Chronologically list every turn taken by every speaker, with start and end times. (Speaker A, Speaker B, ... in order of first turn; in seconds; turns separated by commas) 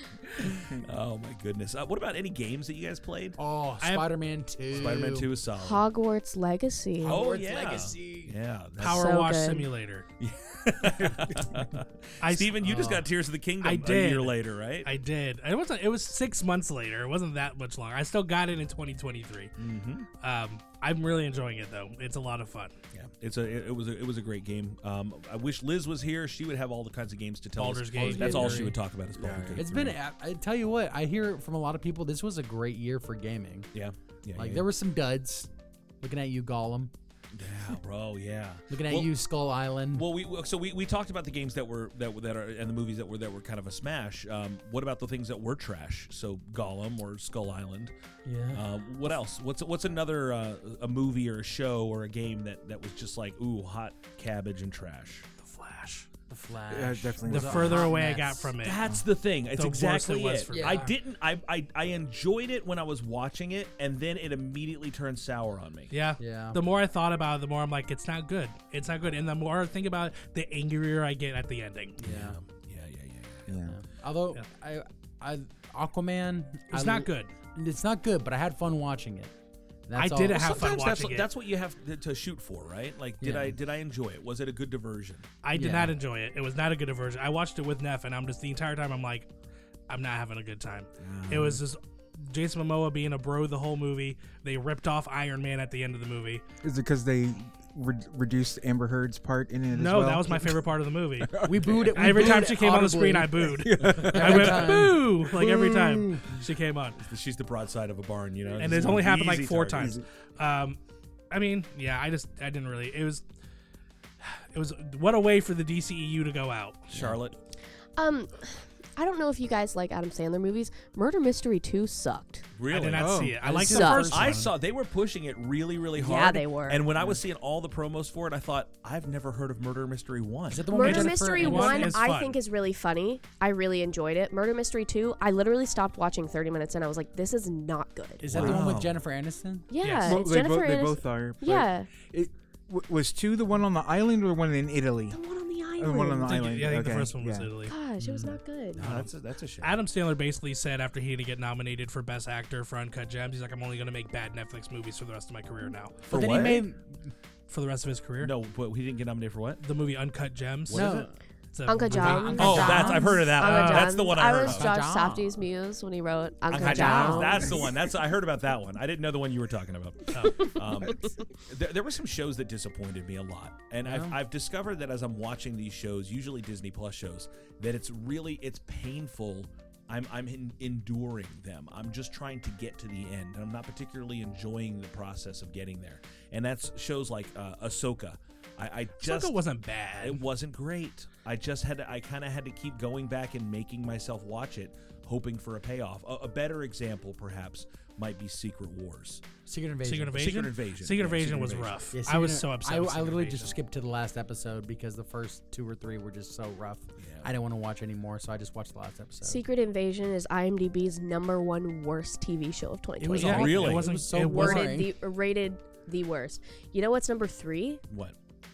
Speaker A: 0.4-3.4, Speaker B: 3.4-5.3, Speaker C: 3.8-4.1, Speaker A: 4.7-5.8, Speaker D: 5.6-7.2, Speaker B: 7.0-8.4, Speaker A: 7.0-9.2, Speaker C: 8.8-10.1, Speaker D: 8.8-9.7, Speaker A: 10.2-14.9, Speaker C: 12.2-13.1, Speaker C: 13.6-19.5, Speaker A: 19.6-20.1, Speaker C: 20.2-22.7, Speaker A: 22.9-30.0, Speaker C: 27.6-28.7, Speaker B: 27.9-28.8, Speaker E: 29.1-29.7, Speaker B: 29.6-33.7, Speaker A: 33.7-34.7, Speaker B: 34.4-35.5, Speaker B: 36.0-36.9, Speaker A: 37.3-39.1, Speaker B: 38.7-40.1, Speaker A: 39.9-47.9, Speaker B: 48.2-48.7, Speaker A: 48.5-55.3, Speaker C: 55.4-56.1, Speaker B: 56.3-58.5, Speaker E: 56.7-57.8, Speaker C: 57.3-58.8, Speaker A: 58.6-65.9, Speaker C: 59.5-60.9, Speaker B: 60.5-60.9, Speaker C: 65.9-72.0, Speaker B: 66.2-66.6, Speaker B: 72.0-72.4, Speaker A: 72.0-73.5, Speaker E: 73.5-73.8, Speaker B: 73.7-79.3, Speaker C: 76.7-77.3, Speaker B: 79.9-80.5, Speaker C: 80.0-81.3, Speaker A: 80.3-85.3, Speaker B: 83.2-83.6, Speaker C: 85.4-89.3, Speaker B: 85.5-86.0, Speaker C: 89.9-96.4, Speaker A: 91.0-91.6, Speaker E: 96.6-100.6, Speaker C: 99.7-107.0, Speaker E: 101.3-102.4, Speaker B: 101.4-105.3, Speaker E: 103.6-106.2, Speaker A: 107.0-110.0, Speaker C: 108.6-110.8, Speaker E: 109.8-110.0, Speaker C: 111.3-113.2, Speaker C: 114.2-116.8, Speaker A: 116.9-117.4, Speaker D: 118.0-122.5, Speaker A: 122.6-123.1, Speaker C: 122.7-124.5, Speaker E: 123.0-123.4, Speaker B: 123.1-124.5, Speaker D: 123.6-124.1, Speaker A: 124.1-130.7, Speaker D: 126.0-126.8, Speaker B: 130.5-132.0, Speaker D: 130.7-138.3, Speaker C: 130.8-132.4, Speaker B: 138.2-139.7, Speaker A: 138.3-139.0, Speaker E: 138.3-138.6, Speaker D: 139.7-141.9, Speaker C: 139.8-140.2, Speaker E: 140.0-145.2, Speaker D: 145.1-146.5, Speaker E: 145.8-147.5, Speaker C: 146.3-147.7, Speaker D: 147.7-148.8, Speaker B: 148.0-149.1, Speaker A: 148.8-149.8, Speaker C: 149.6-156.6, Speaker A: 156.1-156.6, Speaker B: 156.1-157.1, Speaker C: 157.5-158.3, Speaker A: 158.2-159.6, Speaker C: 159.6-160.9, Speaker A: 160.7-161.1, Speaker B: 160.7-161.1, Speaker C: 161.5-164.1, Speaker D: 161.7-167.7, Speaker B: 161.9-163.2, Speaker A: 162.4-164.7, Speaker B: 164.2-165.3, Speaker A: 166.5-189.4, Speaker B: 166.6-167.4, Speaker C: 166.7-167.3, Speaker B: 173.8-174.2, Speaker C: 189.0-190.2, Speaker A: 190.0-199.2, Speaker B: 199.5-200.4, Speaker C: 199.8-203.6, Speaker A: 200.2-201.7, Speaker B: 201.9-209.4, Speaker A: 207.0-207.3, Speaker D: 209.2-217.8, Speaker B: 213.0-214.9, Speaker A: 213.2-213.9, Speaker C: 213.2-214.7, Speaker A: 217.9-218.2